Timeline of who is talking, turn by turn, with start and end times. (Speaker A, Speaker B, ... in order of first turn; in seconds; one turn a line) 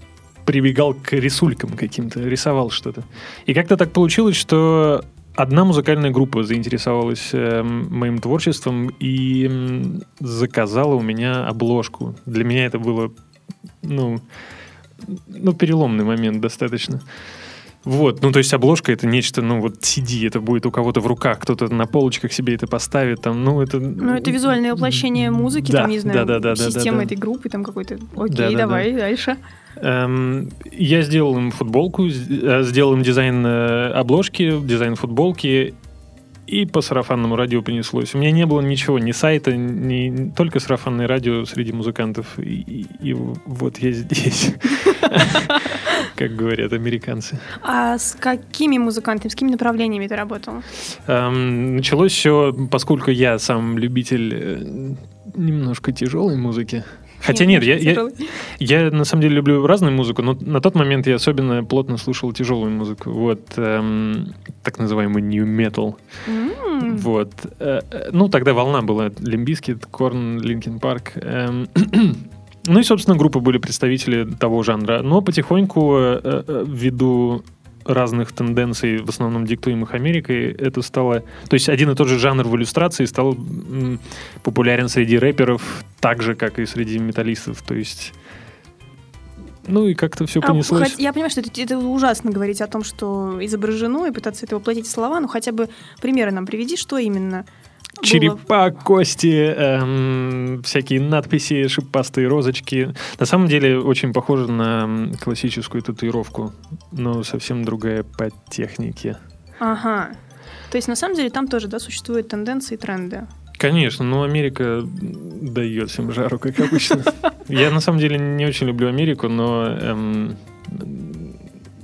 Speaker A: 0.5-13.1
Speaker A: 13.8-14.2
Speaker A: 15.0-17.0
Speaker A: 17.8-27.1
Speaker B: 24.0-29.4
Speaker A: 28.3-28.9
Speaker A: 29.8-35.8
Speaker A: 36.5-47.5
Speaker B: 47.6-50.7
Speaker A: 51.1-66.0
Speaker B: 57.2-58.3
Speaker B: 66.3-67.1
Speaker A: 66.8-88.2
Speaker A: 89.7-91.0
Speaker B: 90.4-97.5
Speaker B: 98.0-98.4
Speaker A: 98.0-109.2
Speaker B: 109.6-110.2
Speaker B: 110.7-113.3
Speaker A: 113.6-121.4